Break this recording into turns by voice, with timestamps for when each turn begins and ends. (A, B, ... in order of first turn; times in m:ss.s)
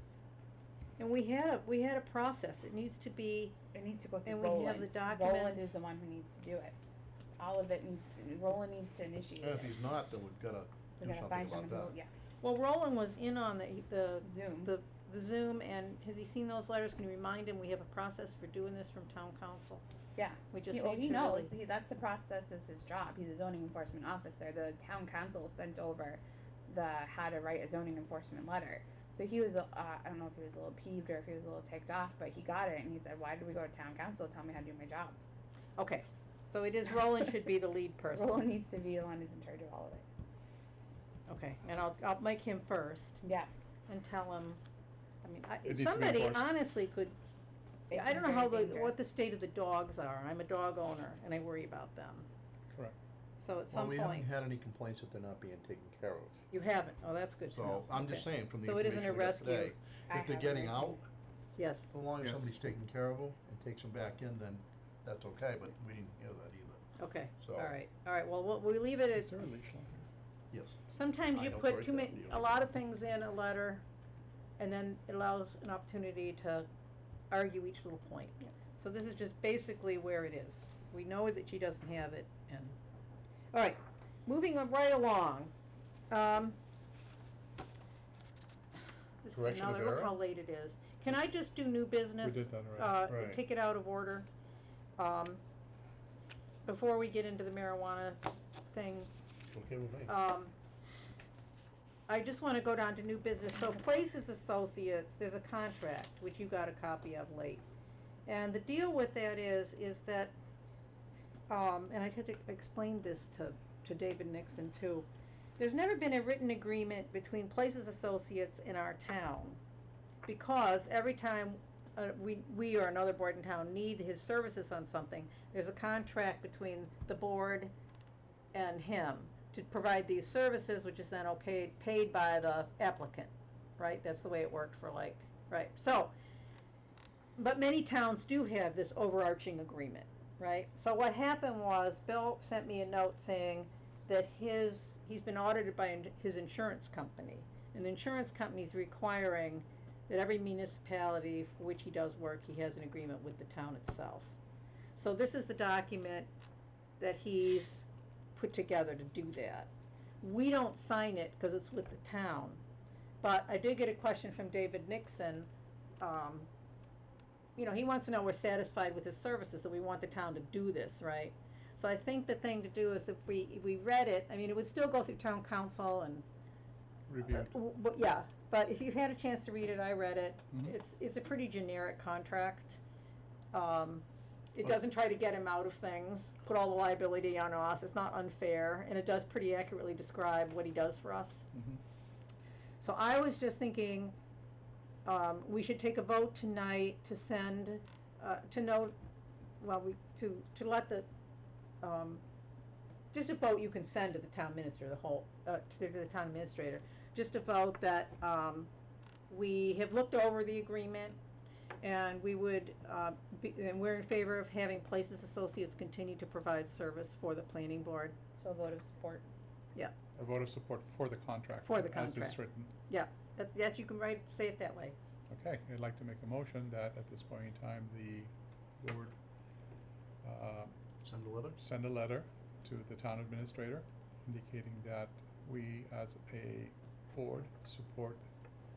0:01.0-0:03.6 A
0:03.7-0:06.7 B
0:04.2-0:05.8 A
0:07.4-0:09.7 B
0:09.4-0:11.9 C
0:11.0-0:12.1 B
0:12.4-0:19.8 A
0:14.2-0:14.7 B
0:20.2-0:35.2 B
0:20.5-0:21.5 A
0:35.8-0:38.5 A
0:38.1-0:40.0 B
0:41.3-0:43.2 A
0:43.2-0:43.5 B
0:43.9-0:44.6 A
0:45.2-0:47.2 A
0:45.6-0:46.5 D
0:47.9-0:49.0 B
0:47.9-0:52.3 A
0:53.4-0:54.3 A
0:53.7-0:56.4 C
0:56.5-0:59.7 A
0:57.5-1:01.1 C
1:00.1-1:01.0 B
1:01.6-1:01.9 A
1:01.9-1:06.8 C
1:02.2-1:02.5 D
1:07.0-1:09.3 A
1:07.4-1:07.7 C
1:09.1-1:10.1 D
1:10.5-1:10.8 C
1:10.9-1:13.8 A
1:11.3-1:12.7 C
1:14.6-1:16.7 A
1:17.3-1:22.8 A
1:23.5-1:25.5 A
1:26.1-1:26.6 A
1:29.2-1:34.3 A
1:29.3-1:30.1 C
1:32.2-1:33.1 D
1:33.1-1:33.4 C
1:35.0-1:35.4 A
1:36.6-1:39.1 A
1:39.5-1:40.1 C
1:40.1-1:40.5 A
1:42.1-1:47.6 A
1:48.2-1:50.3 A
1:51.5-1:55.1 A
1:55.6-1:59.6 A
2:00.2-2:07.7 A
2:08.5-2:16.1 A
2:17.4-2:34.3 A
2:35.0-2:36.3 A
2:37.0-2:39.7 A
2:40.2-2:42.6 A
2:43.2-2:45.5 A
2:46.0-2:46.5 A
2:47.6-2:56.2 A
2:57.1-2:57.5 D
2:57.2-3:02.8 A
3:03.5-3:11.5 A
3:11.5-3:11.8 D
3:12.8-3:14.1 A
3:15.0-3:18.9 A
3:19.6-3:21.1 A
3:21.8-3:22.2 A
3:23.1-3:28.7 A
3:29.3-3:31.2 A
3:31.8-3:38.1 A
3:38.4-3:39.2 B
3:40.1-3:42.7 D
3:41.6-3:44.9 A
3:45.3-3:49.1 D
3:50.2-3:50.7 D
3:51.0-3:51.6 C
3:51.6-3:58.3 D